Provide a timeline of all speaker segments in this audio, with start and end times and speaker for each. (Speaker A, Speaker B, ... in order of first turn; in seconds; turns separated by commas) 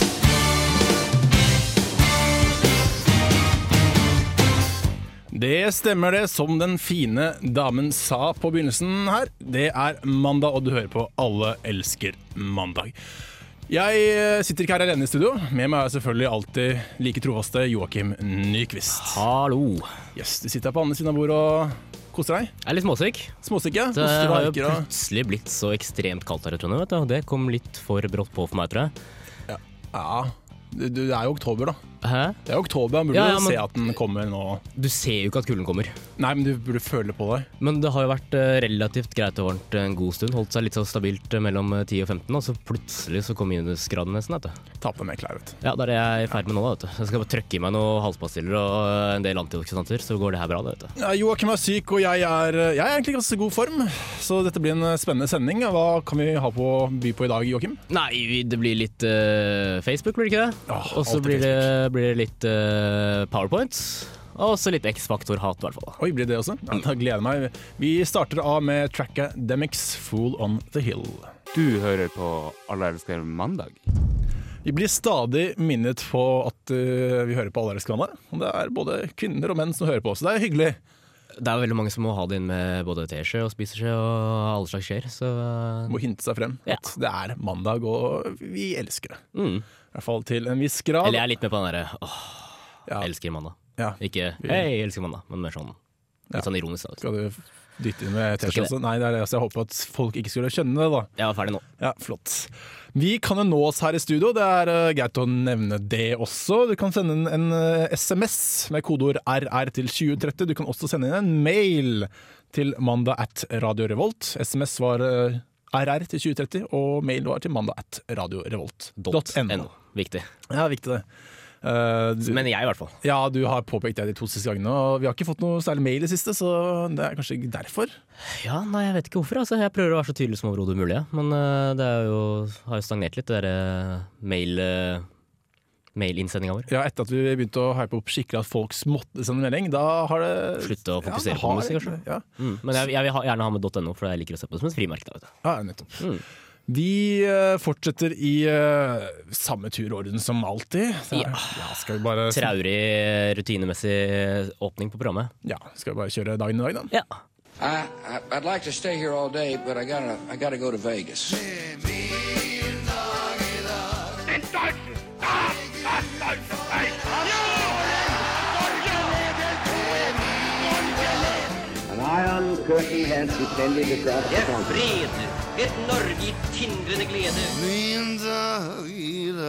Speaker A: 5.3-12.9, Speaker A: 13.7-19.2, Speaker B: 18.9-19.9, Speaker A: 20.1-22.5, Speaker B: 22.6-23.4, Speaker A: 23.4-24.9, Speaker B: 23.9-28.9, Speaker A: 29.5-31.8, Speaker B: 32.0-32.4, Speaker A: 32.5-34.6, Speaker B: 33.1-33.7, Speaker B: 34.8-36.0, Speaker A: 36.2-37.5, Speaker B: 37.6-44.6, Speaker A: 44.8-45.6, Speaker B: 45.6-50.9, Speaker A: 51.0-57.8, Speaker B: 57.9-66.0, Speaker A: 60.7-61.7, Speaker A: 66.0-71.3, Speaker C: 71.5-73.8, Speaker A: 74.6-80.8, Speaker B: 81.4-86.0, Speaker A: 85.9-89.2, Speaker B: 89.3-89.7, Speaker A: 89.9-91.3, Speaker B: 91.0-95.8, Speaker A: 93.8-94.7, Speaker B: 96.3-97.0, Speaker A: 97.0-101.1, Speaker B: 98.4-98.7, Speaker B: 101.2-101.6, Speaker A: 101.8-119.7, Speaker B: 119.0-120.3, Speaker A: 120.5-121.1, Speaker A: 121.6-122.5, Speaker B: 122.3-123.0, Speaker A: 123.0-128.0, Speaker B: 128.3-135.1, Speaker B: 135.9-136.7, Speaker A: 136.7-142.3, Speaker B: 140.6-145.3, Speaker A: 145.4-146.1, Speaker B: 146.0-146.2, Speaker A: 146.7-152.5, Speaker B: 151.1-151.5, Speaker B: 152.3-155.3, Speaker A: 155.4-156.9, Speaker D: 157.6-161.5, Speaker E: 171.9-174.9, Speaker F: 175.6-177.5